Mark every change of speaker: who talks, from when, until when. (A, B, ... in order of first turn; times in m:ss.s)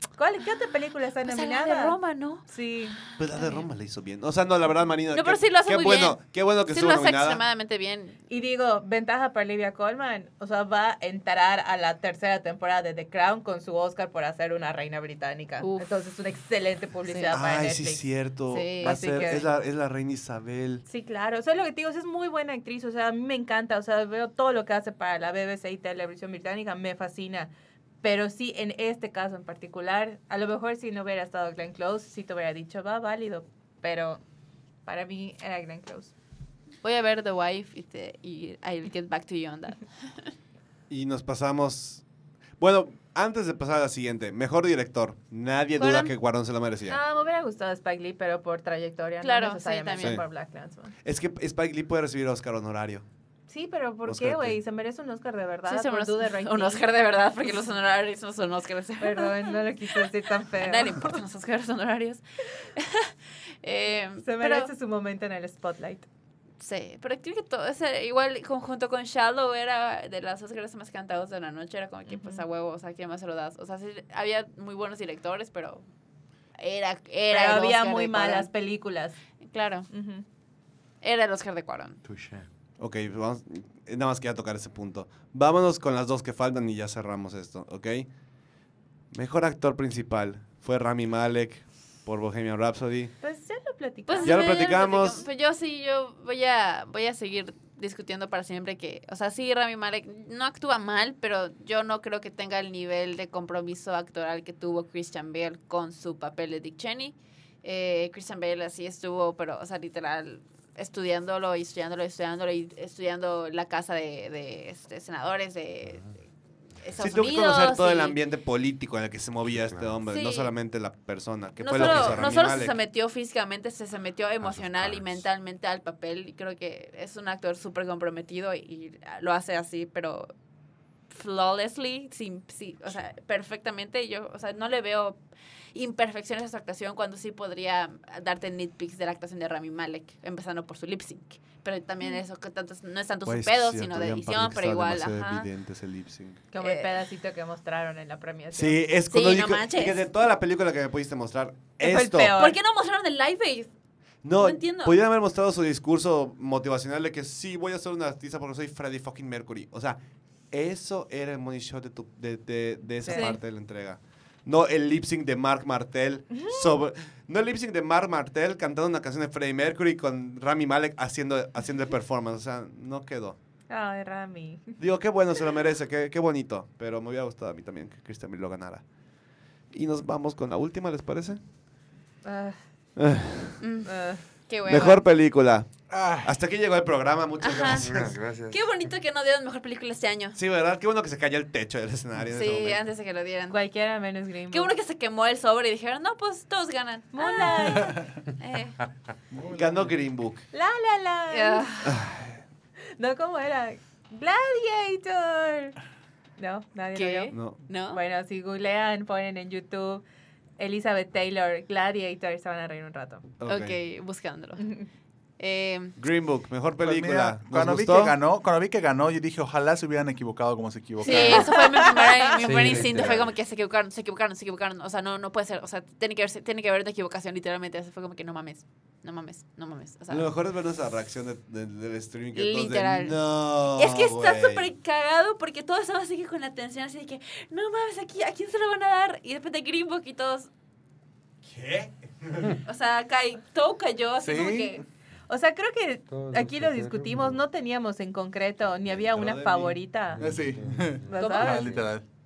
0:00.2-0:03.0 A
0:01.2-0:03.6 B
0:03.2-0:07.4 C
0:05.1-0:08.2 B
0:08.3-0:18.0 A
0:15.6-0:15.9 B
0:17.1-0:17.3 B
0:17.3-0:20.8 C
0:18.5-0:19.0 B
0:18.8-0:19.4 A
0:20.8-0:27.5 A
0:28.0-0:34.2 A
0:34.8-0:36.1 A
0:36.8-0:40.3 B
0:40.9-0:42.0 C
0:42.6-0:47.0 C
0:45.8-0:46.1 B
0:46.9-0:50.9 A
0:49.2-0:50.2 B
0:51.0-0:53.0 C
0:53.5-0:56.8 A
0:54.0-0:54.6 C
0:55.7-1:04.7 B
0:59.0-1:01.2 A
1:04.2-1:06.0 A
1:06.6-1:15.8 B
1:12.1-1:12.4 A
1:16.6-1:18.5 B
1:17.3-1:19.2 A
1:19.4-1:19.9 B
1:19.9-1:20.2 A
1:21.0-1:22.0 B
1:22.0-1:22.5 D
1:22.8-1:28.1 C
1:29.1-1:33.1 C
1:33.2-1:34.4 A
1:34.1-1:56.1 B
1:34.2-1:35.2 C
1:56.8-1:58.2 B
1:57.0-2:02.8 C
1:59.5-2:00.0 D
2:00.1-2:00.5 B
2:01.6-2:10.3 B
2:01.8-2:02.3 D
2:04.4-2:05.2 D
2:11.1-2:15.2 B
2:15.7-2:25.5 B
2:23.2-2:26.4 C
2:26.5-2:28.8 A
2:26.6-2:26.9 B
2:28.5-2:32.4 C
2:29.1-2:30.1 B
2:31.8-2:32.6 A
2:32.4-2:33.7 B
2:34.2-2:53.4 C
2:34.4-2:35.0 B
2:43.0-2:43.4 A
2:43.1-2:43.4 B
2:53.7-2:54.8 A
2:54.8-2:58.8 C
2:59.7-3:01.4 C
3:02.2-3:02.6 A
3:03.0-3:03.6 C
3:03.6-3:05.0 B
3:03.8-3:04.2 A
3:04.7-3:08.1 C
3:05.9-3:06.4 E
3:07.4-3:07.8 B
3:07.7-3:08.6 D
3:08.5-3:10.4 B
3:10.4-3:12.8 C
3:12.3-3:13.6 B
3:13.5-3:14.7 A
3:14.5-3:18.8 B
3:17.1-3:18.0 A
3:19.3-3:20.1 E
3:19.5-3:20.4 C
3:20.5-3:21.7 A
3:21.3-3:22.0 B
3:21.8-3:22.4 C
3:23.0-3:25.8 A
3:26.4-3:27.3 A
3:26.9-3:28.0 B
3:27.3-3:27.6 C
3:27.9-3:30.0 A
3:30.6-3:33.2 A
3:33.4-3:33.8 C
3:33.4-3:34.7 B
3:34.6-3:34.9 A
3:35.4-3:36.0 B
3:36.0-3:38.2 C
3:36.8-3:41.6 E
3:41.0-3:50.3 B
3:41.1-3:42.2 A
3:42.4-3:43.3 D
3:42.5-3:43.1 E
3:50.1-3:54.7 C
3:52.3-4:00.5 B
4:01.4-4:02.6 C
4:02.6-4:04.8 B
4:04.2-4:04.8 E
4:05.3-4:10.3 A
4:06.1-4:07.4 D
4:08.9-4:09.8 C
4:10.1-4:11.9 D
4:10.2-4:12.0 E
4:11.1-4:11.7 A
4:11.2-4:11.7 B